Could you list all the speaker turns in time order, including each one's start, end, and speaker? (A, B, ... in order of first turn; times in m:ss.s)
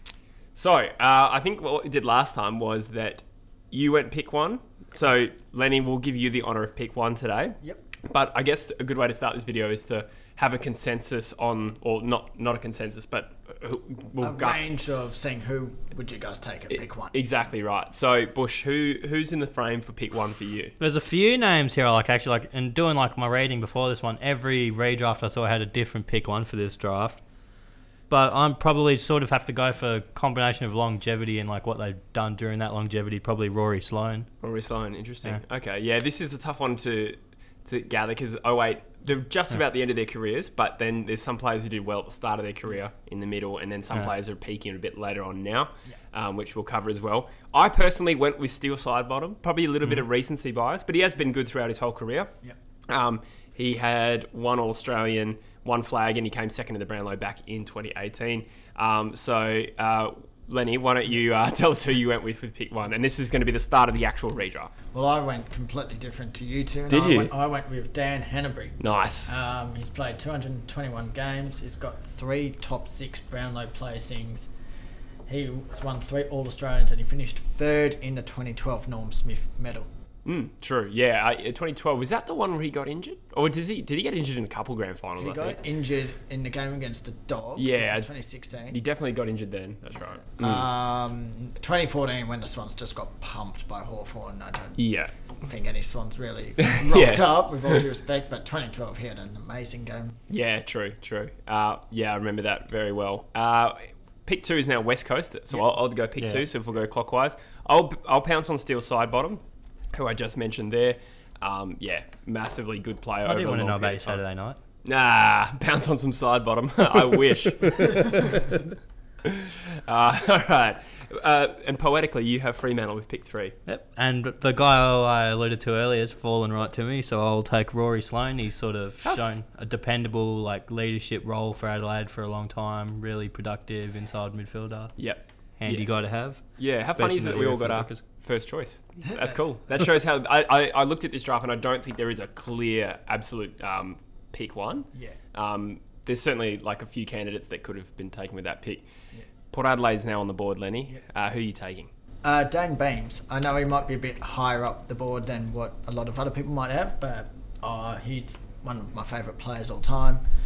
0:00.5-0:14.6 A
0:14.2-0:17.2 B
0:16.7-0:20.7 A
0:20.8-0:27.2 C
0:28.1-0:34.3 C
0:34.4-0:52.4 A
0:52.9-1:04.7 A
1:04.9-1:14.5 B
1:06.9-1:07.3 A
1:08.8-1:09.3 A
1:15.2-1:19.9 B
1:20.2-1:25.6 A
1:25.2-1:28.8 B
1:27.6-1:28.1 A
1:28.7-1:30.6 A
1:30.4-1:34.8 B
1:34.8-1:35.1 A
1:35.4-1:40.2 B
1:36.6-1:37.8 A
1:40.3-1:49.4 A
1:46.2-1:46.4 C
1:49.9-1:54.2 A
1:53.2-1:54.6 C
1:54.8-1:58.4 A
1:59.2-2:03.6 A
2:03.6-2:15.0 C
2:15.0-2:15.9 A
2:15.6-2:18.0 C
2:16.6-2:28.9 A
2:19.0-2:19.4 B
2:29.5-2:31.9 A
2:32.2-2:40.2 B